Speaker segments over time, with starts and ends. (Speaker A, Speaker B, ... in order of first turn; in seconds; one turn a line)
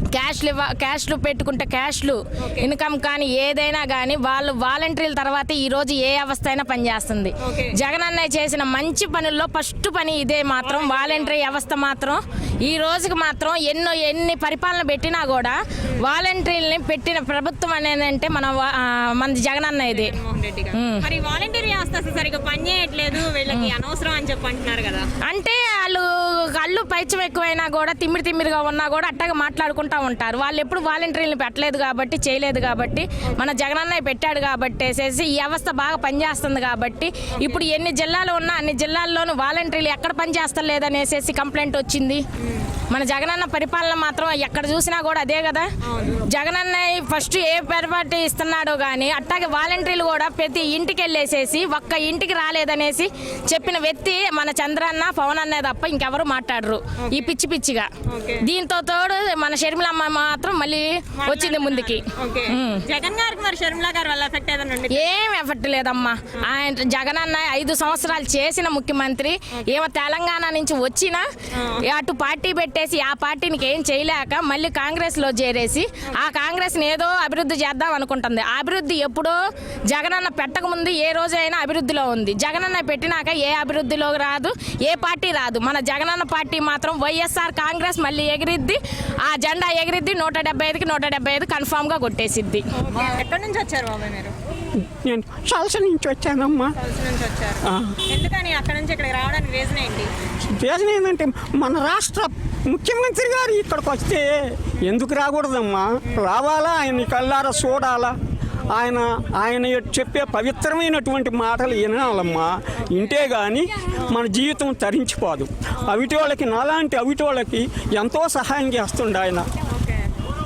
Speaker A: 0.1-20.1
Speaker B: 2.4-2.7
Speaker B: 7.4-7.8
Speaker B: 10.6-11.4
Speaker B: 19.9-25.1
Speaker A: 20.8-21.1
Speaker A: 25.3-42.2
Speaker A: 42.9-45.7
Speaker B: 45.9-46.2
Speaker A: 46.3-57.9
Speaker B: 57.0-57.4
Speaker B: 58.1-58.5
Speaker A: 58.4-62.8
Speaker B: 61.2-65.1
Speaker A: 64.9-71.2
Speaker B: 71.6-71.8
Speaker A: 71.8-79.3
Speaker A: 79.9-92.6
Speaker B: 92.8-94.3
Speaker C: 94.8-96.7
Speaker B: 96.8-100.1
Speaker C: 97.6-98.0
Speaker C: 100.6-108.2
Speaker C: 108.7-119.5
Speaker B: 115.8-116.2
Speaker B: 119.7-120.1